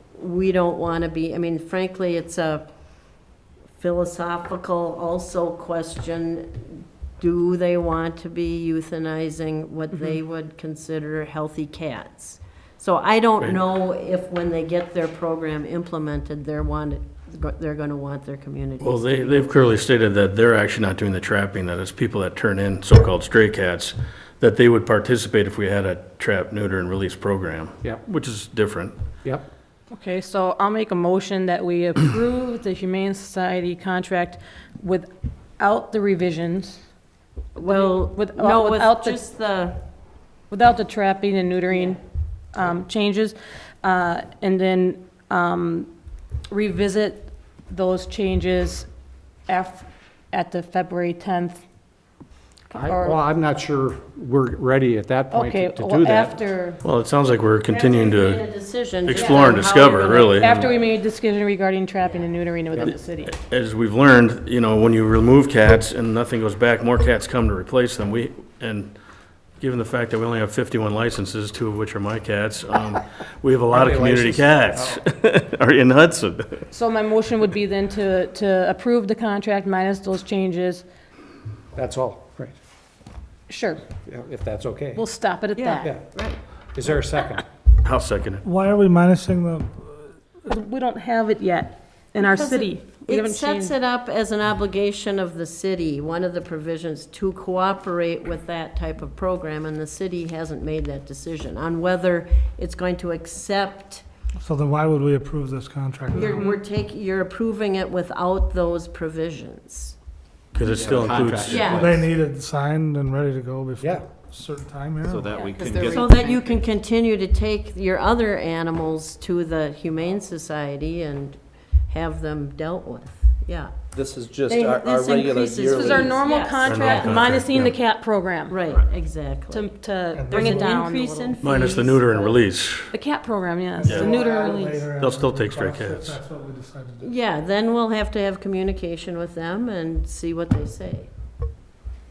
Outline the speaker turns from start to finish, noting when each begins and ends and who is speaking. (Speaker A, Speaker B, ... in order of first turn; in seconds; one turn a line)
Speaker A: 0.1-2.6
Speaker A: 3.8-19.5
Speaker B: 18.8-28.9
Speaker C: 29.9-36.8
Speaker A: 37.5-39.8
Speaker C: 37.6-39.2
Speaker C: 40.5-42.0
Speaker C: 42.5-45.9
Speaker C: 46.5-48.9
Speaker C: 49.5-51.6
Speaker C: 52.7-53.2
Speaker D: 52.8-56.4
Speaker C: 55.3-56.8
Speaker B: 56.8-58.4
Speaker A: 57.7-60.8
Speaker B: 59.0-60.6
Speaker C: 59.2-59.6
Speaker C: 60.3-63.4
Speaker B: 63.3-69.0
Speaker B: 69.6-76.7
Speaker D: 73.7-75.0
Speaker C: 76.7-80.8
Speaker D: 81.7-82.5
Speaker C: 83.5-83.8
Speaker D: 84.0-85.0
Speaker C: 85.0-85.9
Speaker A: 86.1-86.4
Speaker D: 86.7-87.4
Speaker B: 87.8-88.4
Speaker E: 88.4-89.7
Speaker C: 90.5-93.7
Speaker A: 92.2-104.0
Speaker E: 104.4-106.5
Speaker A: 106.1-110.0
Speaker B: 110.5-111.8
Speaker F: 110.6-112.0
Speaker A: 111.4-112.0
Speaker E: 111.8-115.3
Speaker D: 113.8-114.0
Speaker F: 115.0-116.6
Speaker C: 115.3-115.7
Speaker A: 115.8-121.4
Speaker A: 121.9-123.7
Speaker F: 123.9-126.2
Speaker A: 124.4-127.3
Speaker C: 125.8-128.6
Speaker B: 126.6-127.7
Speaker A: 128.5-129.7
Speaker C: 129.5-131.4
Speaker E: 130.1-130.7
Speaker A: 130.3-132.4
Speaker B: 131.4-132.9
Speaker C: 132.9-134.9
Speaker E: 133.8-137.1
Speaker B: 133.8-134.1
Speaker B: 134.9-136.2
Speaker A: 137.0-141.1